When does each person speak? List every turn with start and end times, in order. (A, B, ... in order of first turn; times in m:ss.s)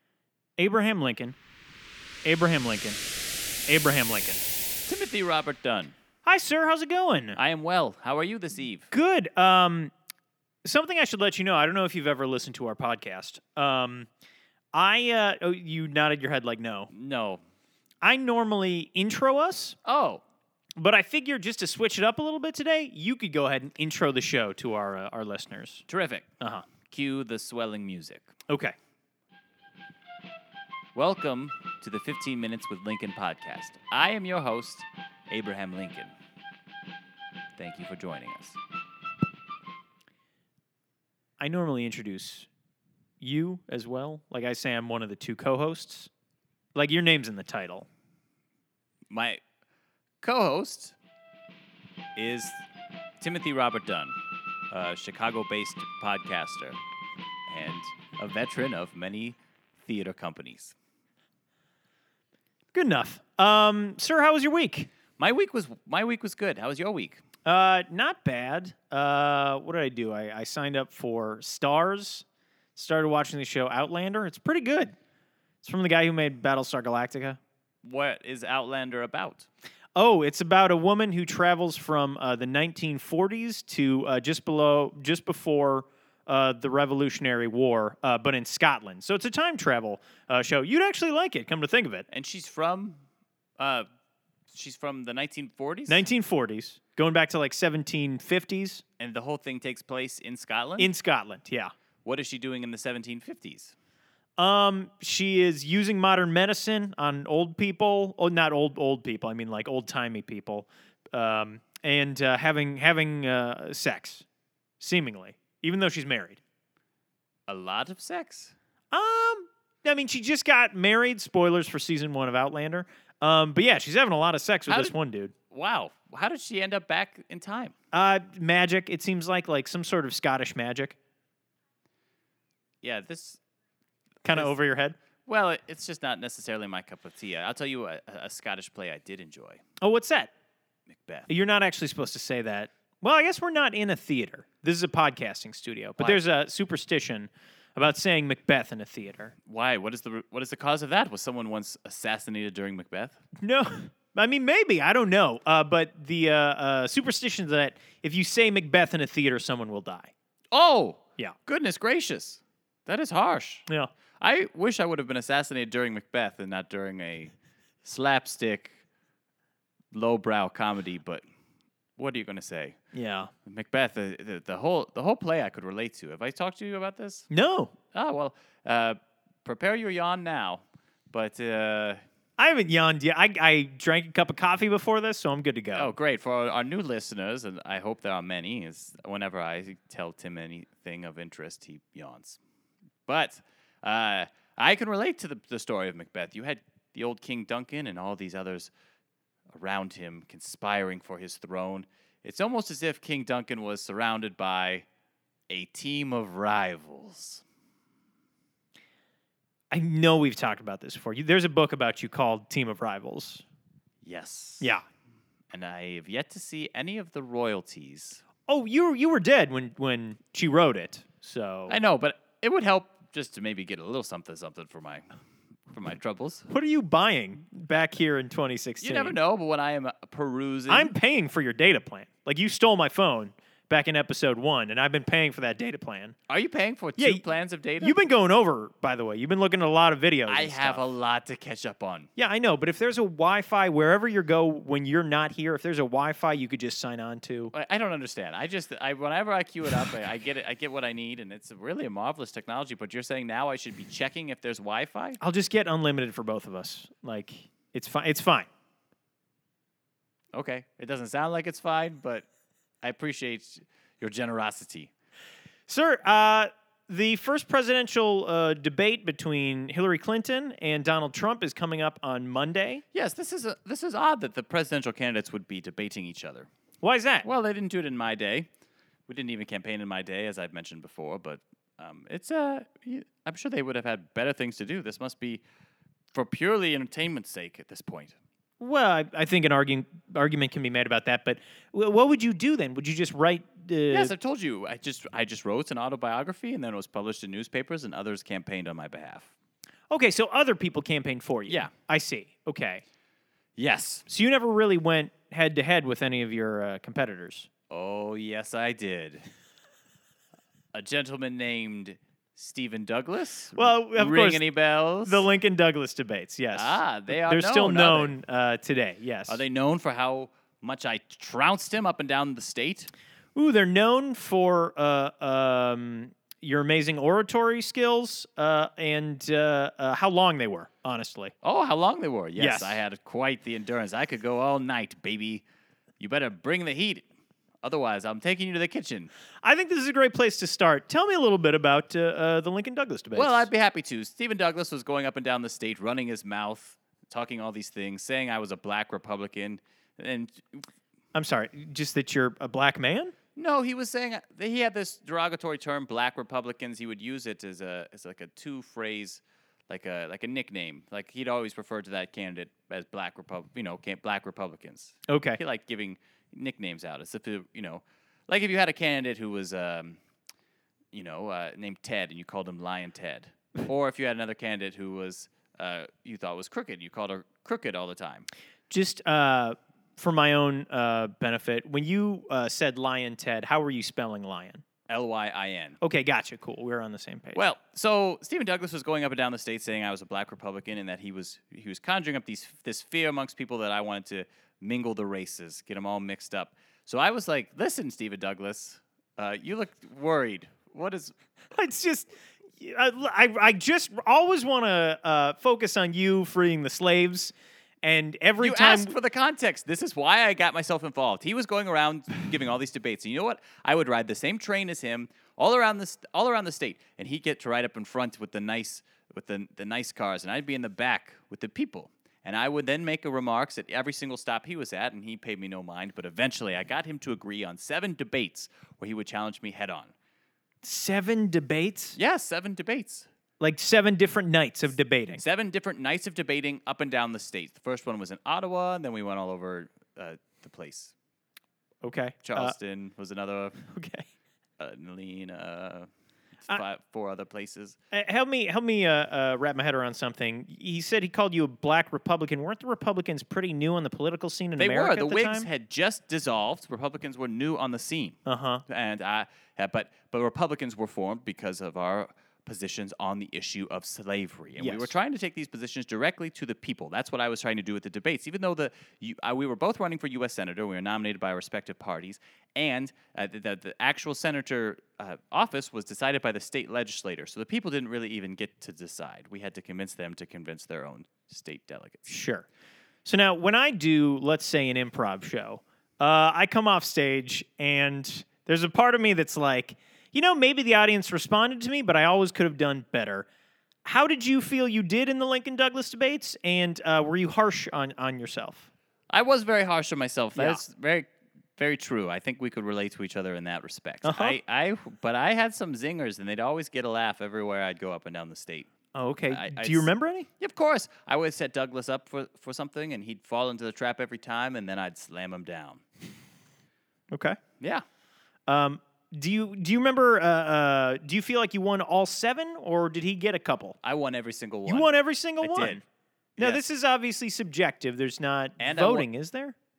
0:00.6-0:01.4 A
0:02.2-0:03.0 A
0:03.7-0:04.4 A
0:04.9-0:06.0 B
0:06.2-0:07.4 A
0:07.4-0:08.9 B
0:08.9-0:09.9 A
0:10.6-0:14.1 A
0:14.7-0:16.9 A
0:16.9-0:17.4 B
0:18.0-0:19.8 A
0:19.8-0:20.2 B
0:20.8-0:25.9 A
0:25.9-0:26.3 B
0:26.4-0:26.7 A
0:26.8-0:28.3 B
0:28.5-0:28.8 A
0:31.0-0:36.1 B
0:37.6-0:38.6 B
0:41.4-0:42.5 A
0:43.2-0:46.1 A
0:46.8-0:47.9 A
0:49.1-0:49.4 B
0:50.2-0:51.0 B
0:52.2-0:52.6 B
0:53.2-0:54.2 B
0:54.7-0:56.8 B
0:57.5-1:00.8 B
1:02.7-1:04.9 A
1:05.2-1:07.2 B
1:07.4-1:12.2 A
1:12.8-1:15.0 A
1:15.6-1:17.4 A
1:17.8-1:19.5 B
1:20.0-1:32.1 A
1:32.1-1:33.0 B
1:33.6-1:33.9 B
1:34.5-1:36.0 B
1:35.9-1:38.8 A
1:39.0-1:40.9 B
1:40.8-1:41.7 A
1:42.0-1:43.8 B
1:44.4-1:54.2 A
1:54.8-1:56.4 A
1:57.5-1:58.6 B
1:58.9-2:05.3 A
2:04.7-2:05.0 B
2:05.5-2:07.7 B
2:07.9-2:11.0 A
2:12.8-2:13.4 B
2:14.2-2:15.0 A
2:14.3-2:14.6 B
2:15.3-2:19.6 B
2:19.8-2:20.3 A
2:20.9-2:21.3 B
2:21.3-2:29.4 A
2:29.5-2:33.2 B
2:33.4-2:40.1 A
2:40.5-2:43.7 B
2:44.2-2:48.8 B
2:49.9-2:51.2 B
2:52.0-2:52.8 B
2:52.9-2:53.3 A
2:53.4-2:57.3 B
2:57.3-2:57.7 A
2:57.9-3:02.0 B
3:02.4-3:05.9 A
3:05.8-3:12.4 B
3:13.1-3:18.7 B
3:19.5-3:24.9 B
3:25.5-3:27.4 B
3:29.7-3:33.4 A
3:34.0-3:34.7 B
3:35.5-3:38.2 B
3:38.5-3:41.8 A
3:41.7-3:45.1 B
3:45.7-3:46.5 B
3:46.5-3:49.2 A
3:48.8-3:50.9 B
3:50.7-3:56.2 A
3:56.3-3:58.0 B
3:57.0-3:57.2 A
3:57.8-4:00.8 A
4:00.3-4:02.1 B
4:02.2-4:07.5 A
4:07.5-4:15.2 B
4:15.2-4:18.5 A
4:20.3-4:22.3 B
4:22.8-4:24.9 B
4:25.7-4:32.8 A
4:32.9-4:36.5 B
4:36.8-4:37.3 A
4:37.2-4:38.5 B
4:39.1-4:45.4 B
4:46.1-4:48.2 B
4:48.6-4:54.1 A
4:53.9-4:59.3 B
4:59.9-5:02.8 A
5:03.6-5:04.1 B
5:04.1-5:07.5 A
5:07.7-5:09.3 B
5:10.7-5:15.2 B
5:13.6-5:14.4 A
5:15.0-5:19.4 A
5:16.5-5:18.2 B
5:19.3-5:22.9 B
5:23.4-5:31.3 A
5:31.4-5:35.4 B
5:32.4-5:32.8 A
5:36.0-5:37.1 B
5:37.6-5:39.1 B
5:39.4-5:43.5 A
5:43.2-5:50.7 B
5:51.1-5:53.1 A
5:53.4-6:10.0 B
6:05.1-6:05.4 A
6:10.9-6:18.3 B
6:18.7-6:24.6 A
6:24.9-6:25.8 B
6:25.8-6:27.5 A
6:27.4-6:41.2 B
6:41.5-6:48.9 A
6:48.4-7:09.9 B
7:10.6-7:12.0 A
7:12.0-7:13.1 B
7:13.4-7:15.2 A
7:15.2-7:20.9 B
7:21.8-7:22.6 A
7:22.2-7:23.6 B
7:23.6-7:24.1 A
7:24.6-7:25.9 B
7:26.5-7:27.8 B
7:27.9-7:35.5 A
7:34.6-8:02.1 B
7:38.3-7:38.6 A
7:44.6-7:44.9 A
8:02.1-8:02.5 A
8:03.0-8:13.3 A
8:13.8-8:18.7 A
8:19.1-8:28.7 B
8:20.4-8:20.6 A
8:24.0-8:24.4 A
8:28.9-8:30.3 A
8:29.3-8:35.8 B
8:37.1-8:37.4 A
8:37.6-8:37.8 B
8:38.5-8:43.8 A
8:43.8-8:44.9 B
8:44.7-8:45.8 A
8:45.4-8:45.8 B
8:46.4-8:49.6 A
8:48.6-8:49.1 B